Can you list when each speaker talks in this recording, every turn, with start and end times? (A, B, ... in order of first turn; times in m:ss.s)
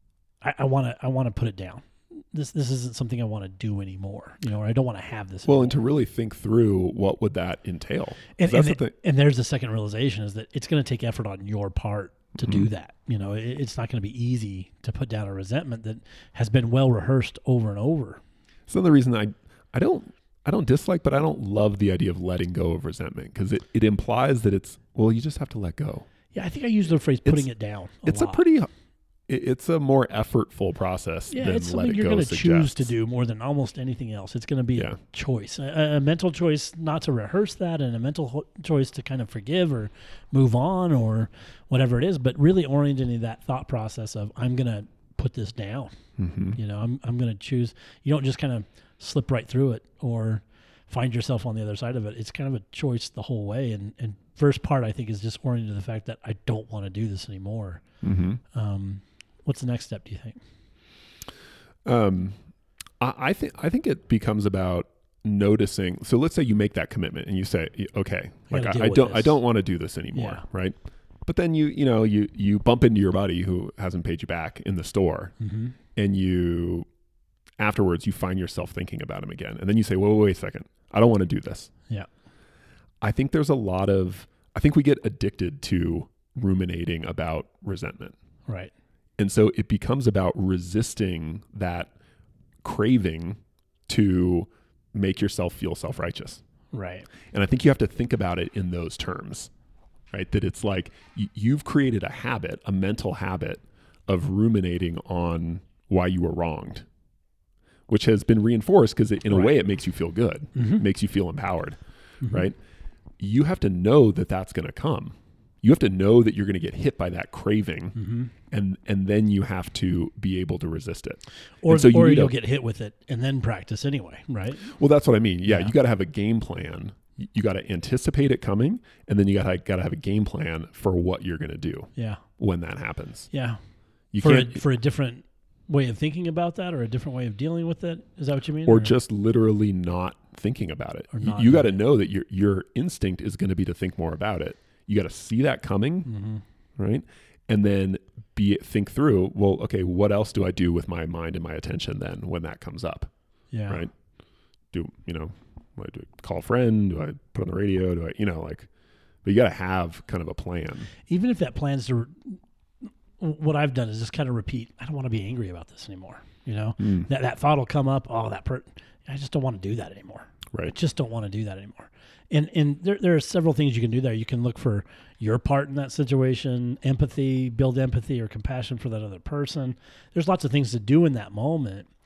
0:00.4-0:05.8 A
0:05.4-0:08.9 B
0:08.4-0:18.2 A
0:12.4-0:12.7 B
0:18.7-0:26.1 B
0:26.3-0:28.4 A
0:28.0-0:28.7 B
0:29.3-0:32.9 B
0:31.3-0:45.9 A
0:46.2-0:46.6 B
0:46.5-0:57.8 A
0:58.0-0:58.4 B
0:58.5-1:00.4 A
1:01.8-1:02.4 B
1:03.0-1:15.3 B
1:08.5-1:09.4 A
1:10.1-1:10.4 A
1:15.4-1:15.8 A
1:15.9-1:16.9 B
1:17.6-1:21.7 B
1:23.0-1:28.2 B
1:29.2-1:31.9 B
1:32.6-1:36.4 B
1:36.7-1:37.1 A
1:37.3-1:39.5 B
1:40.1-1:46.8 B
1:47.9-1:52.6 B
1:50.5-1:50.8 A
1:52.2-1:52.5 A
1:53.2-1:58.0 B
1:57.9-1:58.3 A
1:58.5-2:02.3 B
2:01.6-2:04.7 A
2:04.6-2:13.3 B
2:05.5-2:05.7 A
2:12.0-2:12.2 A
2:13.3-2:13.6 A
2:14.1-2:14.6 B
2:14.2-2:18.9 A
2:18.6-2:26.1 B
2:21.1-2:21.8 A
2:26.0-2:26.4 A
2:26.8-2:33.1 B
2:33.5-2:33.8 A
2:34.7-2:38.7 B
2:39.2-2:40.9 B
2:41.1-2:42.4 A
2:43.2-3:01.9 A
2:46.8-2:47.1 B